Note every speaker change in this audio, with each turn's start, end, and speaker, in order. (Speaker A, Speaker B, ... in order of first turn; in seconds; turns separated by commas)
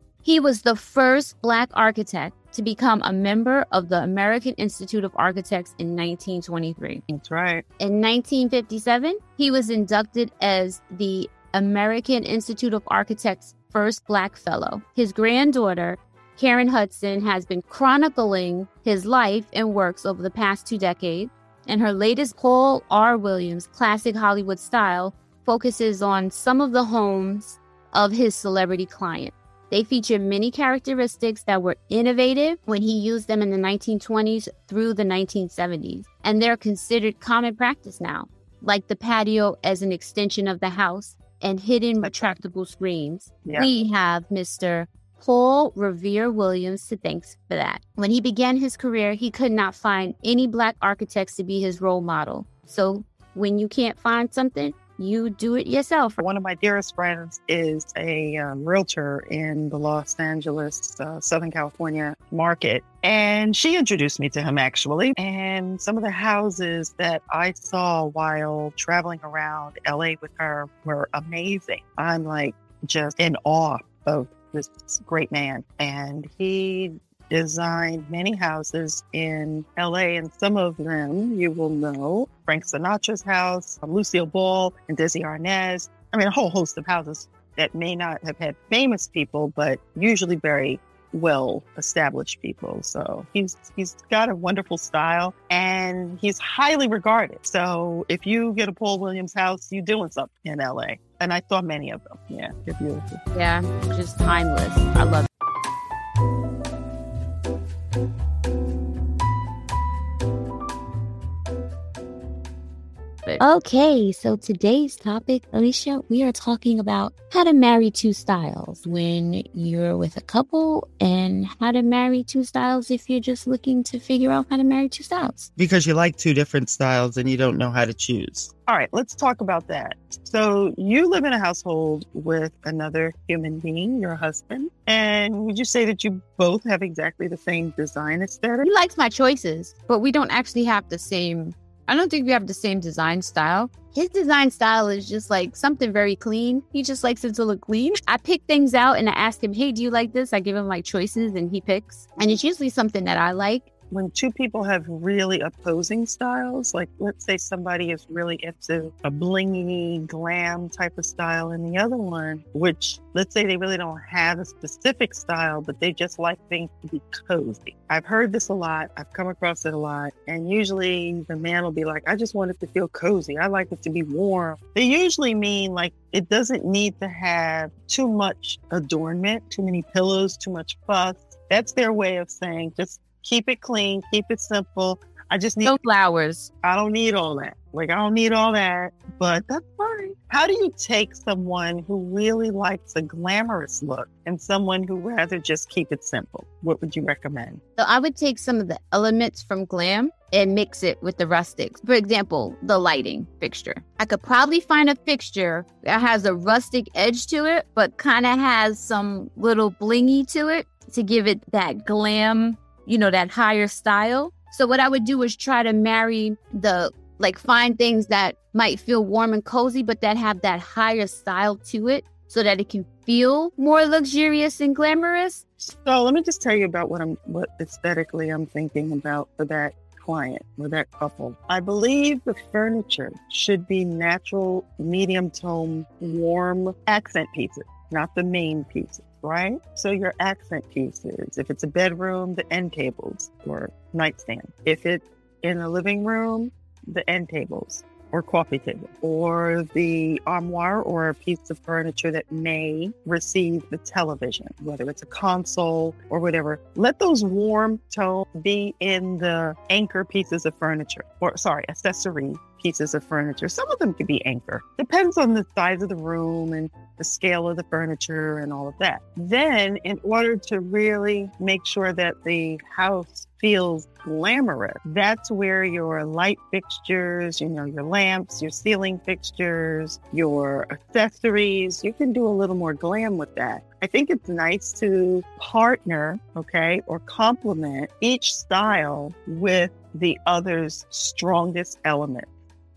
Speaker A: 0.2-7.0, Speaker B: 7.1-7.6, Speaker A: 7.8-56.2, Speaker B: 42.0-42.3, Speaker B: 56.2-103.2, Speaker A: 103.3-105.3, Speaker A: 113.2-125.5, Speaker C: 125.6-128.5, Speaker B: 128.7-138.7, Speaker A: 138.6-153.7, Speaker B: 153.9-185.8, Speaker A: 185.6-186.5, Speaker B: 186.6-197.6, Speaker A: 197.8-225.4, Speaker B: 225.6-292.3